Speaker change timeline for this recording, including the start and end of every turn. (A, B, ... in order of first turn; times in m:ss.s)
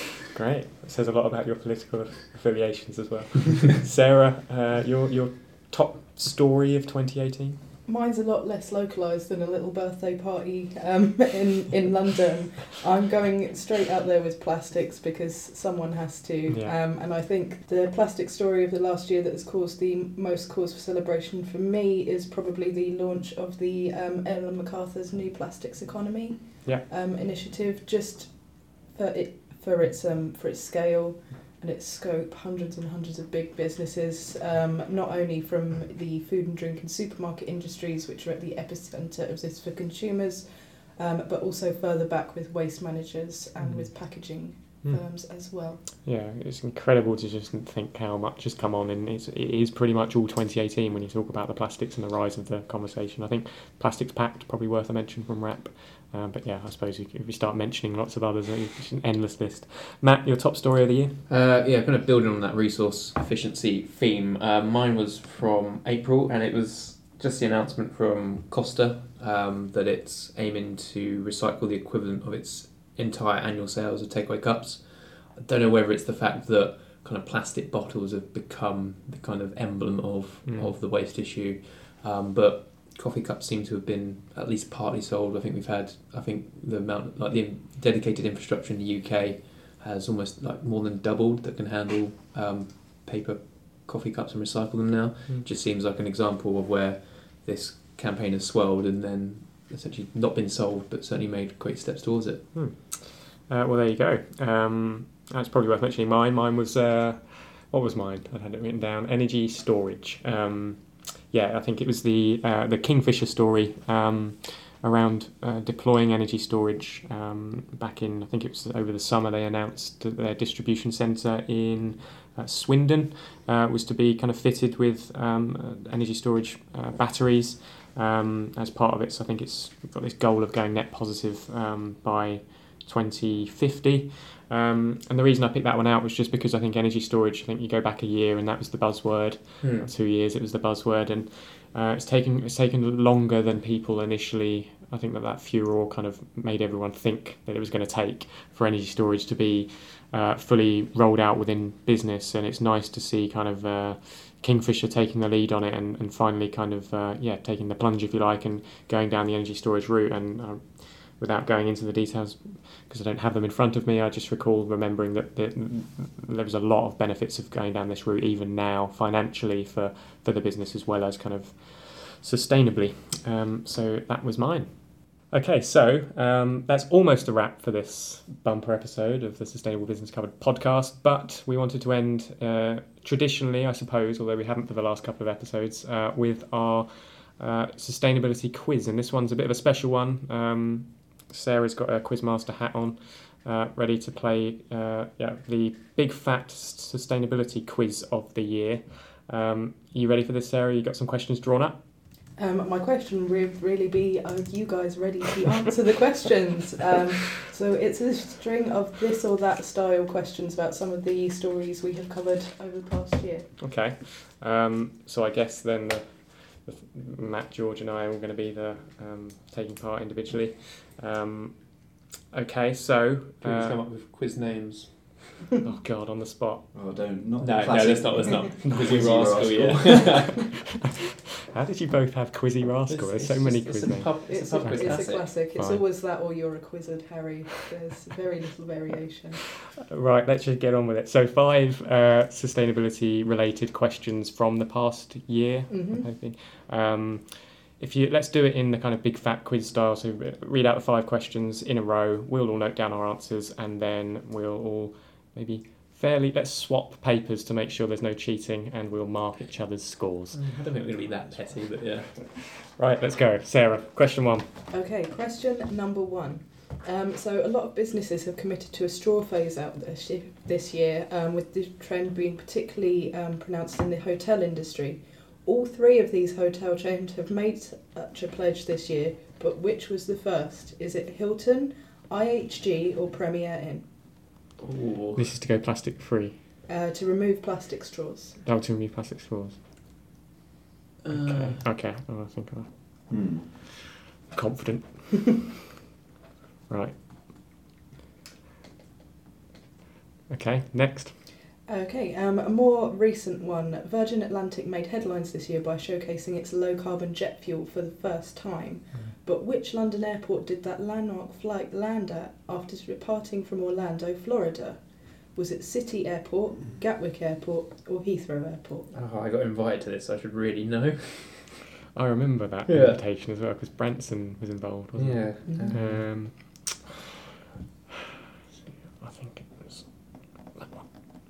0:00.3-0:07.6 A
0:07.8-0:45.8 B
0:16.4-0:16.8 A
0:43.6-1:01.2 A
1:01.3-1:42.5 C
1:42.5-3:21.8 A
2:19.6-2:19.9 C
3:22.3-3:33.5 B
3:33.6-3:43.9 A
3:43.4-3:45.4 C
3:45.6-3:46.7 A
3:46.7-3:50.3 D
3:47.4-3:50.5 C
3:48.6-3:55.9 A
3:52.9-3:55.5 C
3:54.2-3:59.4 B
3:59.4-4:20.9 A
4:05.7-4:06.1 B
4:20.3-4:22.2 C
4:22.0-4:24.6 A
4:24.7-4:43.9 B
4:44.6-4:45.2 C
4:45.1-4:46.4 A
4:46.7-4:48.4 B
4:48.4-4:49.6 A
4:51.0-4:51.6 C
4:51.1-4:53.6 A
4:53.1-4:53.5 D
4:54.3-4:55.1 A
4:56.7-4:57.0 A
5:00.3-5:01.2 A
5:01.6-5:18.9 B
5:18.9-5:21.6 C
5:21.9-5:26.9 A
5:22.7-5:23.0 C
5:25.0-5:26.0 C
5:25.4-5:25.7 B
5:28.6-5:30.9 A